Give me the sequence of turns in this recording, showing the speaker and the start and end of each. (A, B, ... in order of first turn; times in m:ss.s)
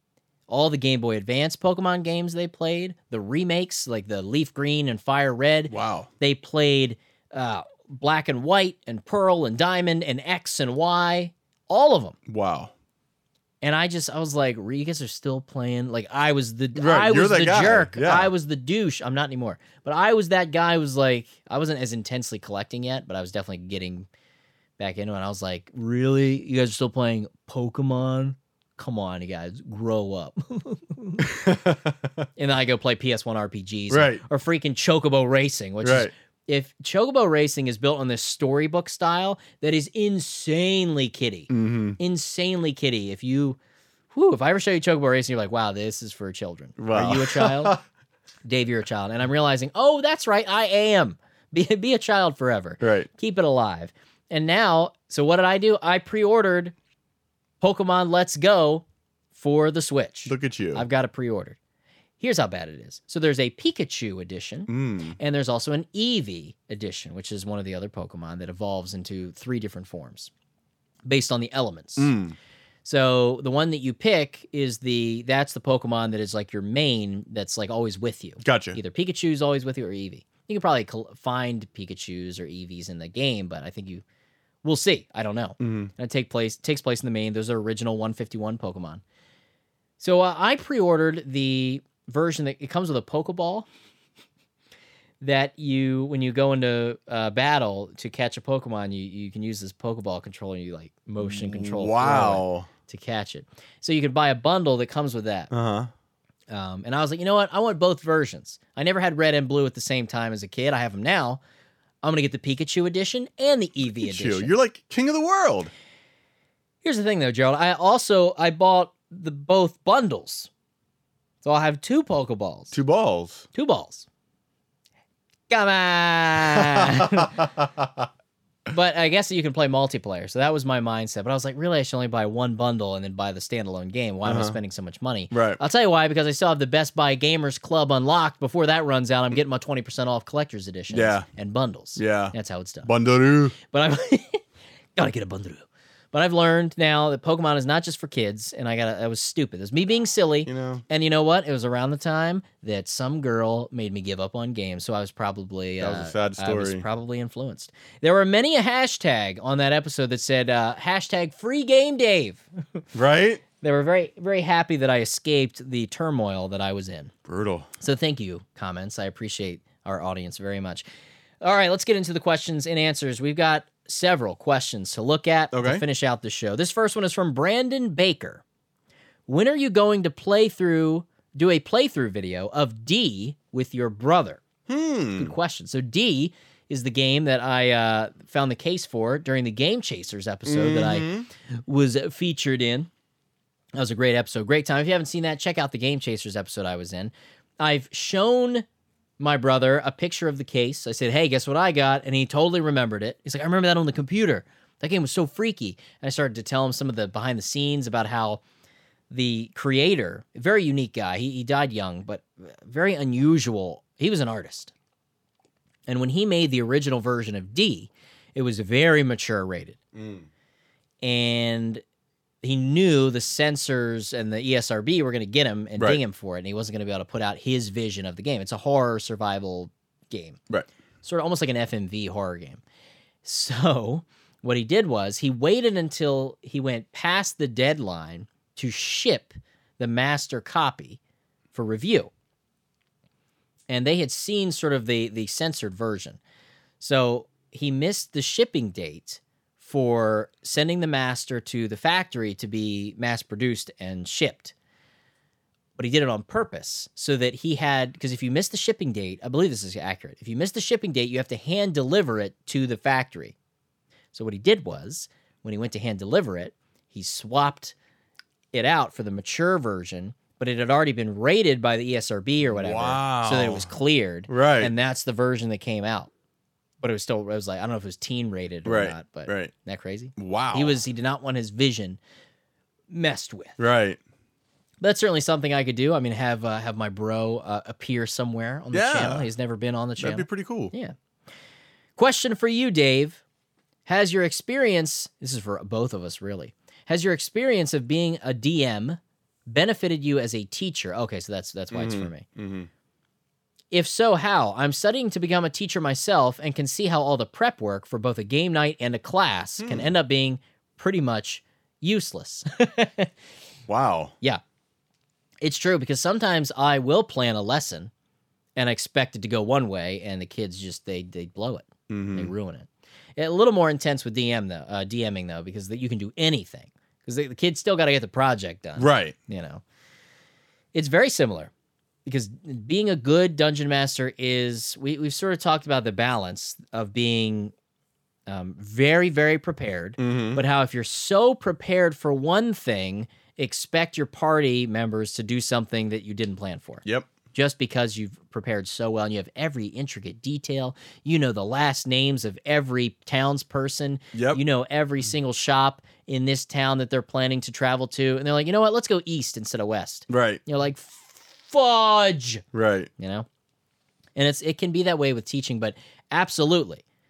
0:00.5-0:12.2 A
0:05.7-0:06.1 B
0:12.3-0:12.7 B
0:13.6-0:24.1 A
0:16.8-0:18.3 B
0:24.8-0:31.2 A
0:31.2-0:32.3 B
0:32.4-0:43.6 A
0:33.9-0:34.2 B
0:35.8-0:36.1 B
0:41.5-0:42.0 B
0:44.1-0:47.8 A
0:46.8-0:47.8 B
0:48.4-0:56.7 A
0:52.8-0:53.1 B
0:57.6-0:58.8 A
0:59.3-1:01.6 A
1:00.3-1:00.8 B
1:02.2-1:10.3 A
1:04.7-1:05.2 B
1:11.0-1:12.1 A
1:12.0-1:12.4 B
1:12.8-1:24.0 A
1:18.4-1:18.8 B
1:24.6-1:29.0 A
1:25.6-1:25.9 B
1:30.0-1:33.6 A
1:35.2-1:45.5 A
1:41.2-1:42.7 B
1:45.5-1:45.9 B
1:46.5-1:51.4 A
1:52.0-1:54.5 A
1:54.0-1:55.7 B
1:56.8-2:00.5 A
2:01.4-2:02.8 A
2:02.7-2:03.5 B
2:03.5-2:04.1 A
2:05.5-2:07.5 A
2:06.4-2:08.1 B
2:08.7-2:22.9 A
2:14.2-2:14.6 B
2:15.3-2:15.6 B
2:20.9-2:21.3 B
2:22.0-2:22.3 B
2:22.8-2:23.6 B
2:23.7-2:24.4 A
2:25.0-2:42.8 A
2:30.4-2:30.8 B
2:35.8-2:36.8 B
2:42.9-2:43.4 B
2:43.6-2:47.1 A
2:47.2-2:47.7 B
2:47.8-2:50.8 A
2:51.4-2:58.4 A
2:55.5-2:55.8 B
2:59.3-3:04.4 A
3:04.7-3:05.3 B
3:05.2-3:12.9 A
3:10.4-3:11.3 B
3:13.7-3:18.6 A
3:19.2-3:28.4 A
3:29.1-3:34.7 A
3:35.9-3:39.8 A
3:39.9-3:40.3 B
3:41.0-3:41.8 A
3:42.4-3:50.4 A
3:51.0-3:52.6 A
3:53.2-4:01.0 A
4:01.5-4:02.1 A
4:03.7-4:06.2 A
4:06.8-4:14.5 A
4:15.8-4:23.4 A
4:24.1-4:27.7 A
4:28.5-4:36.1 A
4:32.5-4:33.7 B
4:34.3-4:34.7 B
4:36.8-4:42.0 A
4:38.6-4:39.5 B
4:40.2-4:40.8 B
4:42.9-4:43.6 A
4:43.6-4:44.0 B
4:44.8-4:50.9 A
4:48.7-4:49.3 B
4:50.0-4:50.7 B
4:52.0-4:53.2 A
4:53.8-5:02.2 A
5:01.7-5:02.7 B
5:03.7-5:13.1 A
5:09.6-5:09.9 B
5:13.7-5:14.1 B
5:15.4-5:17.9 A
5:18.6-5:29.6 A
5:21.9-5:22.3 B
5:28.8-5:29.2 B
5:30.7-5:31.5 A
5:32.0-5:37.5 A
5:38.3-6:02.4 A
5:40.0-5:40.4 B
5:54.1-5:54.4 B
6:00.1-6:00.4 B
6:02.5-6:02.9 B
6:03.0-6:03.3 A
6:04.2-6:06.8 A